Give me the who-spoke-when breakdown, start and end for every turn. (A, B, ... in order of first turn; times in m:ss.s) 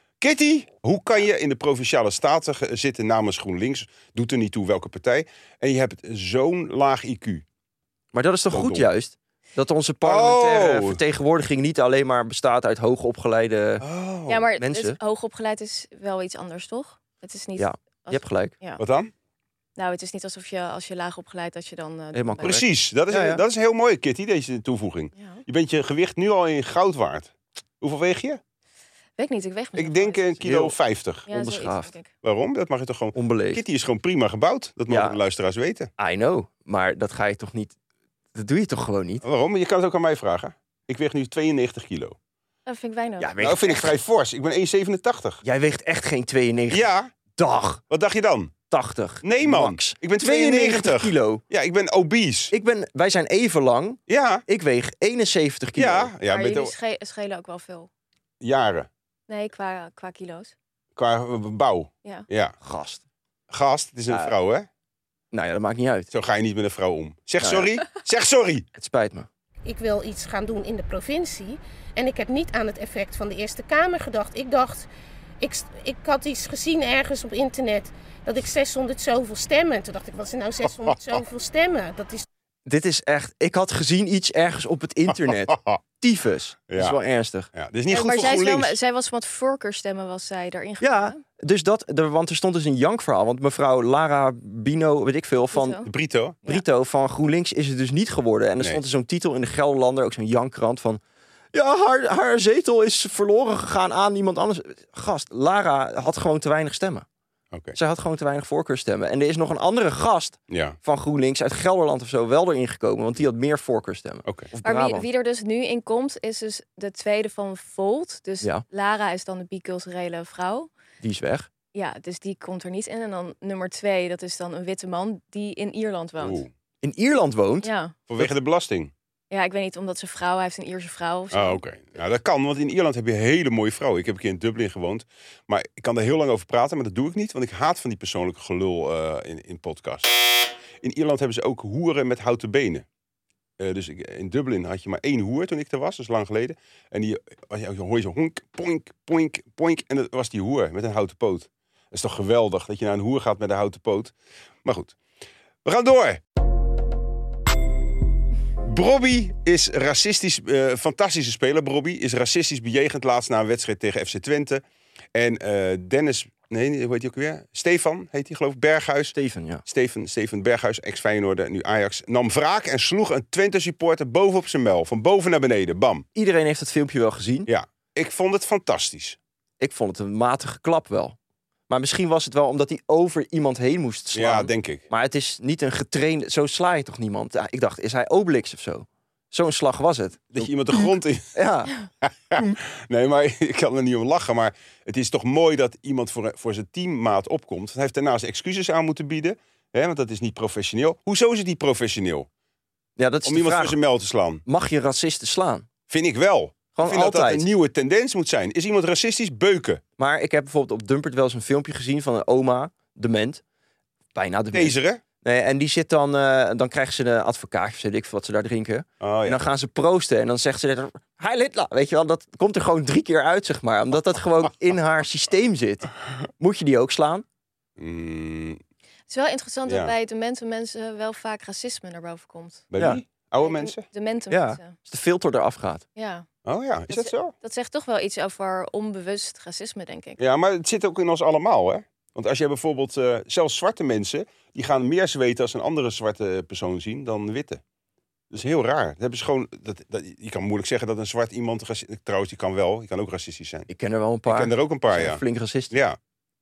0:00.2-0:07.4 A
0:08.1-0:13.8 B
0:08.5-0:08.9 A
0:10.0-0:11.0 A
0:13.8-0:14.5 A
0:14.3-0:18.8 C
0:14.6-0:15.0 B
0:17.6-0:18.5 B
0:18.8-0:19.1 A
0:19.8-0:22.6 C
0:22.1-0:23.4 B
0:22.4-0:28.4 A
0:25.2-0:25.4 C
0:29.2-0:30.3 C
0:29.8-0:31.3 A
0:30.4-0:30.8 B
0:31.3-0:32.1 C
0:31.3-0:31.9 B
0:32.2-0:35.9 A
0:33.1-0:33.6 B
0:34.9-0:35.2 B
0:36.0-0:37.7 B
0:38.3-0:39.2 B
0:39.2-0:42.2 A
0:42.7-0:43.3 C
0:43.2-0:44.0 B
0:43.4-0:45.4 A
0:45.4-0:47.8 B
0:46.7-0:47.1 A
0:47.9-0:48.6 A
0:48.7-0:51.4 B
0:49.2-0:52.5 A
0:52.5-0:56.1 B
0:54.1-0:54.4 A
0:55.8-0:56.7 A
0:56.3-0:57.9 C
0:58.4-0:58.9 A
0:59.3-1:00.5 C
1:01.0-1:02.6 A
1:02.6-1:03.0 B
1:03.5-1:04.7 A
1:04.1-1:04.4 B
1:05.3-1:06.1 B
1:06.1-1:08.7 A
1:07.4-1:07.7 B
1:08.8-1:09.3 B
1:09.7-1:14.9 D
1:15.4-1:22.3 D
1:22.7-1:27.5 B
1:25.5-1:25.8 A
1:26.7-1:27.0 A
1:27.6-1:28.8 A
1:27.9-1:31.2 C
1:30.8-1:35.8 B
1:35.5-1:35.9 C
1:35.9-1:36.4 A
1:36.4-1:41.0 B
1:41.5-1:47.1 B
1:47.5-1:47.8 A
1:47.7-1:55.1 B
1:50.5-1:50.8 A
1:54.6-2:00.7 C
2:01.0-2:01.5 B
2:01.7-2:06.4 C
2:06.2-2:06.5 A
2:06.8-2:08.3 B
2:07.6-2:08.0 C
2:08.1-2:08.9 A
2:09.3-2:11.6 C
2:11.3-2:20.1 A
2:20.8-2:22.8 A
2:23.6-2:34.1 A
2:34.6-2:35.0 A
2:35.6-2:36.2 A
2:38.6-2:44.6 A
2:45.2-2:49.2 A
2:49.1-2:49.6 B
2:49.7-2:56.0 A
2:56.2-2:57.5 B
2:57.5-2:59.2 A
2:59.6-3:01.2 B
3:01.7-3:10.5 B
3:04.1-3:04.8 A
3:10.3-3:11.4 A
3:11.4-3:11.7 B
3:12.0-3:22.3 A
3:23.0-3:23.8 B
3:23.2-3:24.4 A
3:24.5-3:25.7 B
3:25.9-3:29.8 A
3:26.8-3:27.5 B
3:30.0-3:33.4 B
3:34.2-3:47.2 B
3:34.5-3:35.0 A
3:39.0-3:39.4 A
3:47.8-3:48.6 A
3:49.1-3:52.6 C
3:49.7-3:49.9 A
3:52.7-3:53.8 A
3:53.4-3:54.8 C
3:54.3-3:55.8 B
3:56.0-3:56.3 C
3:56.4-3:57.3 A
3:56.9-4:00.2 C
4:00.2-4:07.6 A
4:08.3-4:13.7 A
4:13.7-4:15.7 B
4:14.3-4:16.0 A